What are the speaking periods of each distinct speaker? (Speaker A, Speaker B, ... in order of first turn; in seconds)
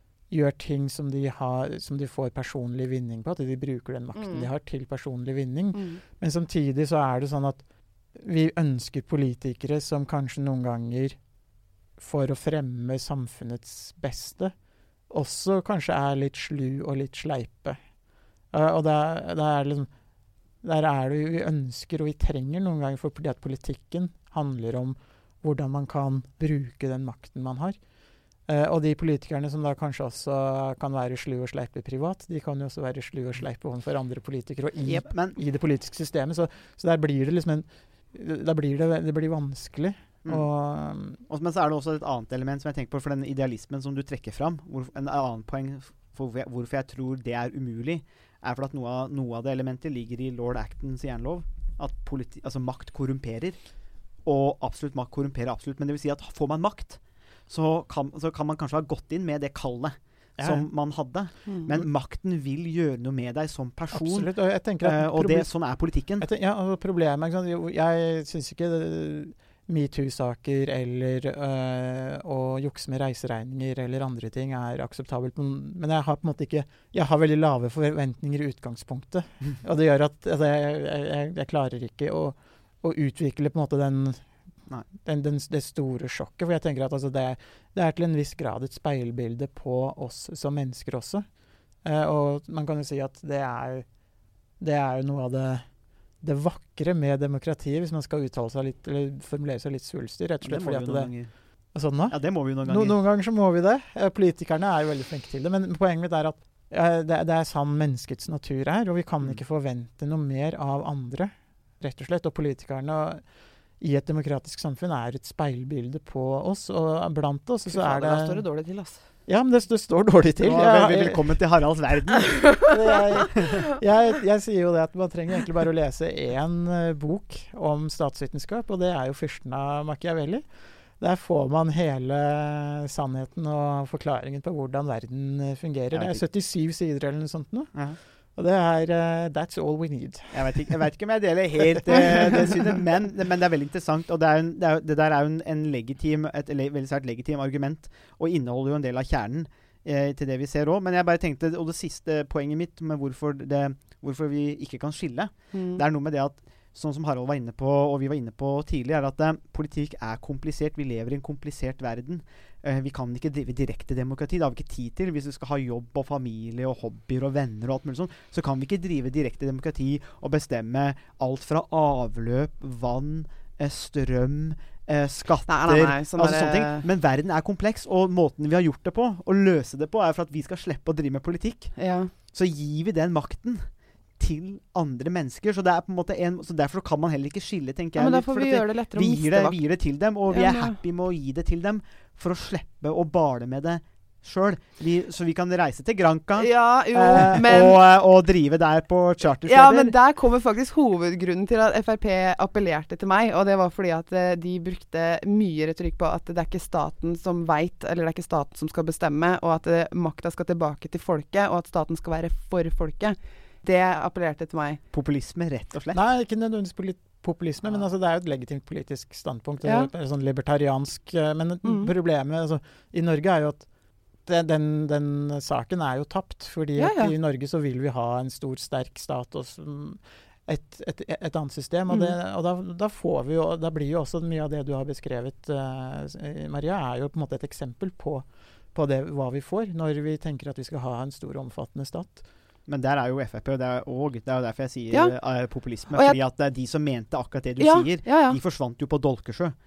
Speaker A: 0.3-7.6, 8.1-11.2, 12.0-14.5, 15.1-17.8, 18.5-19.9, 20.6-27.8, 28.5-41.2, 60.4-60.6, 63.9-65.5, 66.2-84.2, 85.0-91.3, 91.8-93.9, 94.6-95.7, 96.2-101.1, 101.7-113.2, 113.8-118.4, 119.3-121.2, 122.7-140.7, 141.8-142.6, 215.9-223.7, 224.2-242.2
Speaker B: 4.2-4.5, 5.7-6.0, 117.7-119.0, 155.5-155.8, 175.5-176.8, 181.8-182.1, 188.0-189.6, 190.3-190.8, 196.4-197.8, 199.5-214.8, 219.6-219.9, 221.6-221.9, 226.8-227.1, 245.9-246.2, 247.6-248.4
Speaker C: 34.9-35.4, 41.3-53.6, 54.2-66.3, 100.4-101.3, 102.0-103.0, 120.4-122.7, 135.9-136.2, 140.3-199.9, 214.9-216.0, 242.7-249.6